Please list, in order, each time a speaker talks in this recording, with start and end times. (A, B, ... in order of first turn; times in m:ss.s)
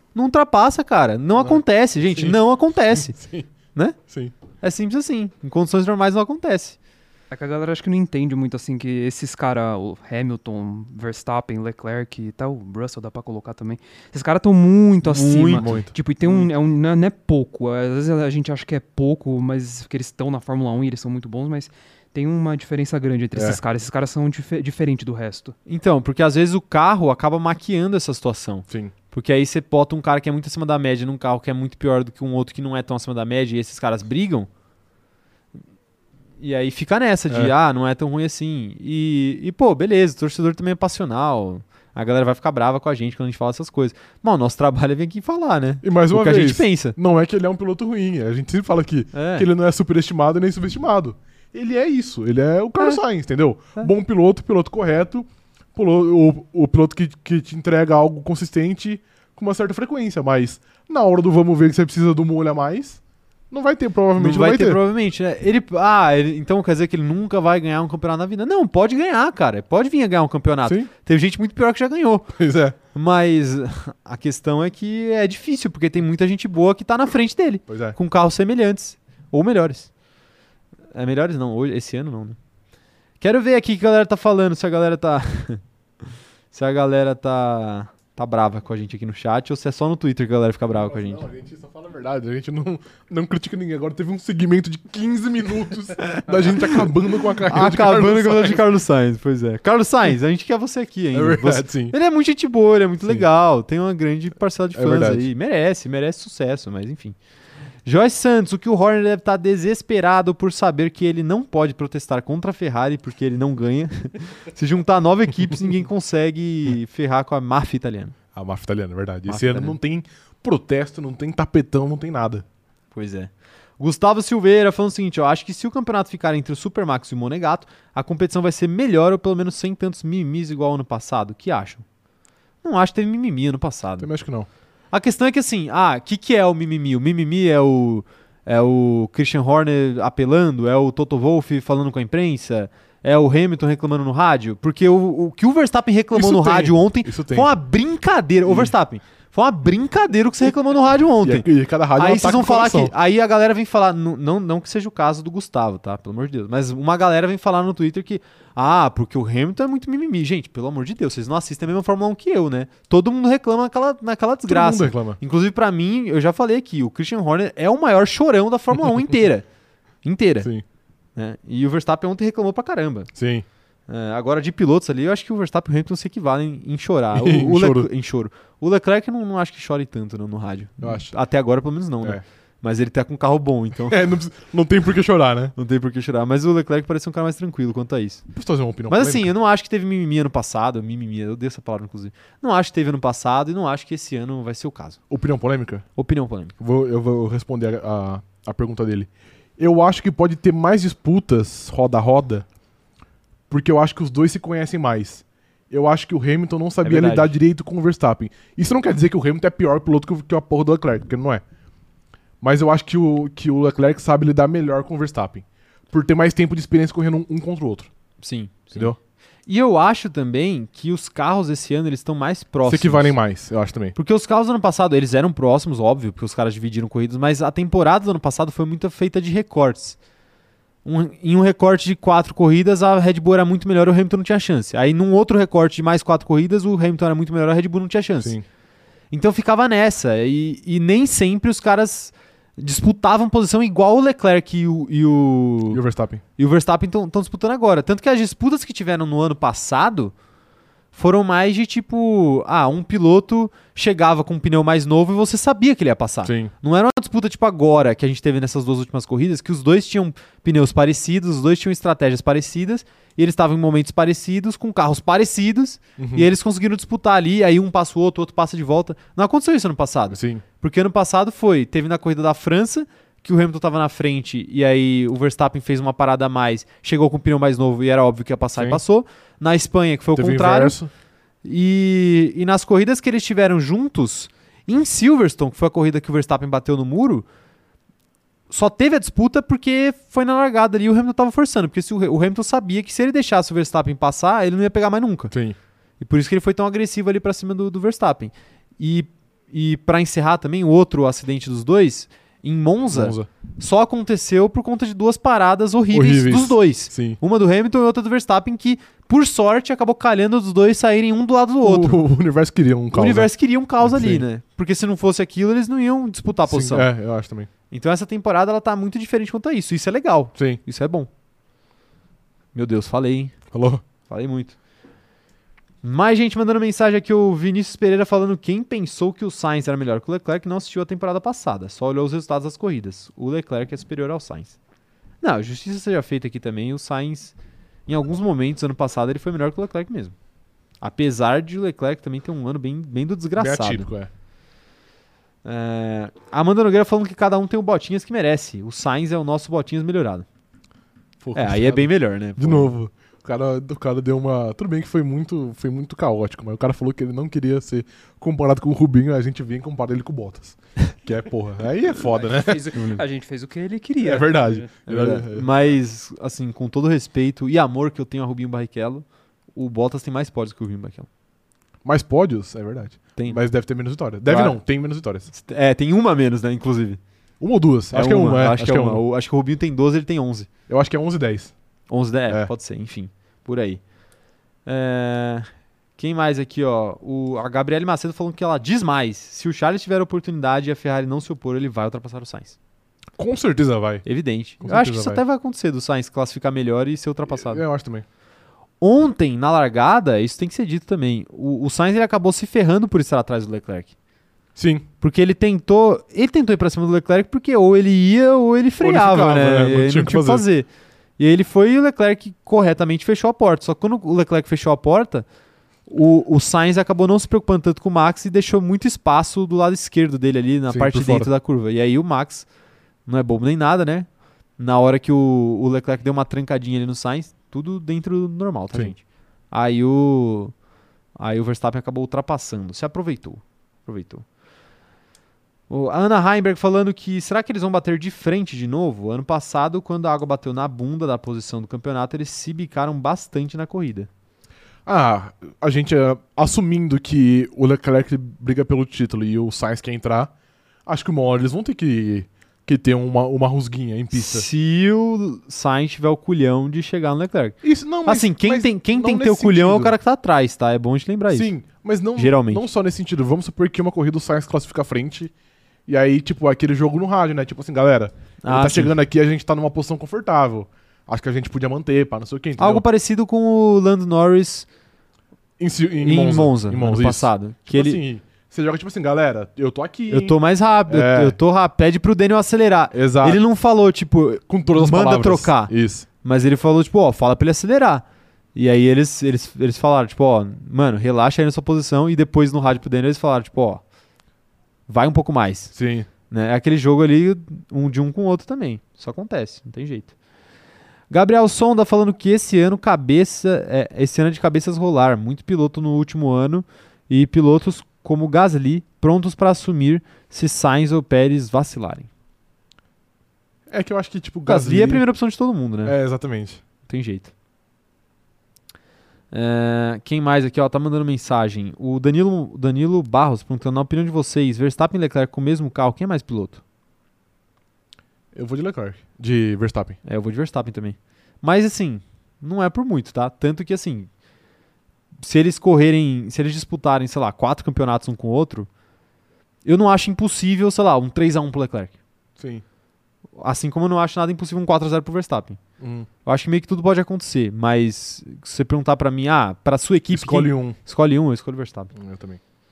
0:00.2-0:03.2 A
0:01.4-0:02.4 B
0:02.9-0:03.5 B
0:04.6-0:06.8 A
0:07.3-0:25.5 C
0:15.0-0:15.7 A
0:15.6-0:15.9 B
0:23.4-0:23.6 B
0:25.7-0:34.5 A
0:28.7-0:28.9 B
0:36.4-0:47.0 A
0:45.8-1:04.8 B
0:49.1-0:49.5 A
1:04.2-1:12.3 A
1:10.6-1:10.9 B
1:12.4-1:12.8 B
1:12.9-1:19.9 A
1:17.7-1:18.0 B
1:20.9-1:22.4 A
1:23.2-1:25.6 A
1:26.5-1:31.2 A
1:30.8-1:38.7 B
1:36.1-1:36.7 A
1:37.4-1:47.2 A
1:41.1-1:42.0 B
1:43.0-1:43.3 B
1:44.8-1:45.3 B
1:47.8-1:58.2 A
1:58.4-2:02.4 B
1:59.3-1:59.8 A
2:02.9-2:11.8 A
2:12.6-2:14.1 A
2:14.0-2:14.5 B
2:14.9-2:49.4 A
2:26.1-2:27.5 B
2:28.4-2:28.7 B
2:31.2-2:32.9 B
2:44.5-2:45.2 B
2:50.0-2:50.5 A
2:51.2-2:53.1 A
2:53.2-2:53.4 B
2:53.9-3:04.0 A
2:57.1-2:57.9 B
3:00.8-3:01.1 B
3:03.9-3:05.5 B
3:05.6-3:08.2 A
3:08.3-3:09.3 B
3:08.9-3:15.0 A
3:15.1-3:15.8 B
3:16.0-3:16.5 A
3:16.6-3:22.5 B
3:23.5-3:31.4 B
3:26.8-3:27.4 A
3:32.4-3:37.9 B
3:38.2-3:38.9 A
3:39.5-3:43.2 A
3:42.7-3:44.0 B
3:44.0-3:50.0 A
3:50.8-3:58.4 A
3:59.1-4:05.8 A
4:05.7-4:06.2 B
4:06.4-4:10.1 A
4:10.9-4:40.8 A
4:16.2-4:16.5 B
4:26.0-4:26.3 B
4:30.1-4:30.4 B
4:38.6-4:38.8 B
4:40.2-4:40.9 B
4:41.4-4:47.3 A
4:48.5-4:55.3 A
4:55.3-4:55.6 B
4:56.0-5:12.0 A
5:02.9-5:03.3 B
5:05.9-5:07.2 B
5:11.6-5:13.3 B
5:12.9-5:16.9 A
5:13.8-5:14.2 B
5:16.5-5:17.5 B
5:17.7-5:21.1 A
5:20.4-5:20.6 B
5:22.6-5:23.4 A
5:23.5-5:23.8 B
5:24.1-5:24.6 A
5:25.8-5:34.6 A
5:35.2-5:37.4 A
5:37.9-5:40.2 A
5:40.8-5:43.9 A
5:43.4-5:44.1 B
5:45.4-5:50.3 A
5:51.2-6:02.9 B
5:51.4-5:52.7 A
6:02.1-6:04.7 C
6:04.0-6:05.5 B
6:04.9-6:11.1 A
6:11.8-6:15.3 B
6:14.2-6:14.6 A
6:15.3-6:17.0 A
6:17.4-6:19.0 B
6:17.9-6:20.5 A
6:20.7-6:21.5 B
6:21.9-6:23.8 A
6:24.7-6:32.6 A
6:33.2-6:34.0 B
6:34.0-6:37.6 A
6:34.6-6:35.2 B
6:37.3-6:38.0 B
6:38.8-6:43.9 A
6:44.6-6:44.9 B
6:45.0-6:50.7 A
6:48.8-6:50.4 B
6:51.2-6:55.3 A
6:55.9-7:02.5 A
7:00.7-7:01.3 B
7:03.1-7:04.1 A
7:04.6-7:10.5 A
7:11.2-7:14.2 A
7:15.7-7:24.1 A
7:24.9-7:30.3 B
7:30.9-7:34.5 B
7:34.1-7:41.5 A
7:37.6-7:40.0 B
7:41.3-7:45.3 B
7:42.2-7:42.7 A
7:45.9-7:52.8 B
7:48.4-7:48.9 A
7:52.6-7:54.7 A
7:55.6-8:00.4 B
7:56.0-7:58.0 A
8:00.1-8:08.0 A
8:00.9-8:01.4 B
8:02.9-8:03.4 B
8:04.5-8:06.1 B
8:08.6-8:13.8 A
8:14.9-8:15.7 A
8:15.7-8:16.1 B
8:16.3-8:20.1 A
8:21.1-8:32.1 A
8:33.7-8:35.0 B
8:34.5-8:36.0 A
8:35.8-8:36.6 B
8:36.9-8:37.3 A
8:39.3-8:46.6 A
8:48.3-8:50.0 B
8:50.0-8:54.1 A
8:55.2-8:58.7 A
8:59.6-9:01.9 A
9:02.4-9:02.6 B
9:03.4-9:05.6 A
9:05.8-9:06.1 B
9:06.2-9:11.9 A
9:10.1-9:10.8 B
9:12.0-9:12.4 B